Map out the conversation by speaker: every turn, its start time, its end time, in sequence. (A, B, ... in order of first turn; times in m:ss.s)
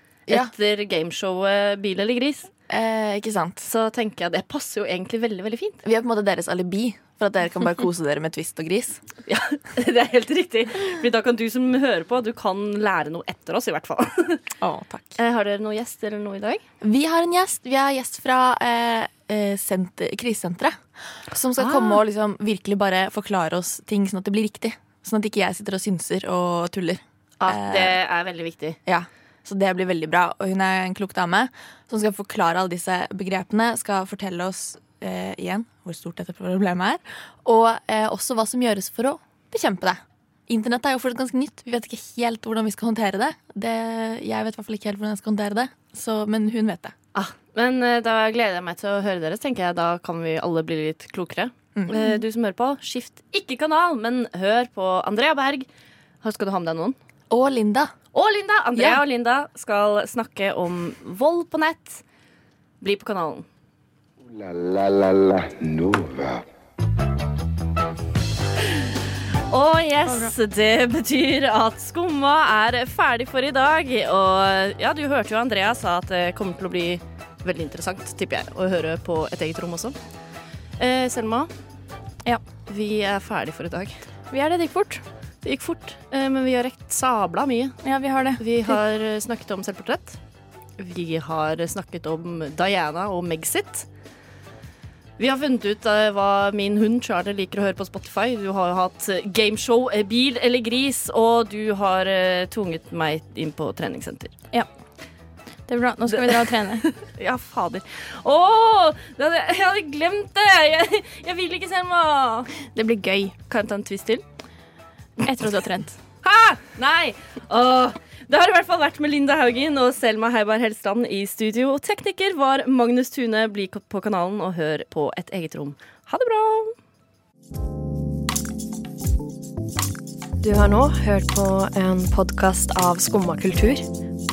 0:00.3-0:02.5 A
0:02.7-0:03.7 B
0:03.6-0:05.8 A
0:05.8-0:09.0 B
0:09.3-0:14.5 A
0:14.6-0:15.2 B
0:15.2-0:16.6 A
0:16.8-0:28.0 B
0:21.6-0:22.0 A
0:27.4-0:28.8 A
0:28.9-0:46.9 B
0:47.2-0:55.7 A
0:51.8-0:52.2 B
0:56.2-0:57.0 A
0:57.3-0:57.9 B
0:58.1-1:02.0 A
1:02.8-1:03.5 A
1:04.2-1:06.4 C
1:09.5-1:20.0 A
1:10.1-1:10.3 D
1:20.8-1:21.5 A
1:22.7-1:24.0 A
1:24.3-1:25.0 D
1:25.4-1:27.8 A
1:27.8-1:28.4 D
1:28.4-1:30.2 A
1:30.8-1:33.9 A
1:35.2-1:44.4 A
1:45.7-1:46.9 D
1:46.1-1:52.5 A
1:52.6-1:53.4 D
1:53.5-1:54.2 A
1:55.2-1:56.0 D
1:56.2-2:06.8 A
2:10.4-2:13.9 E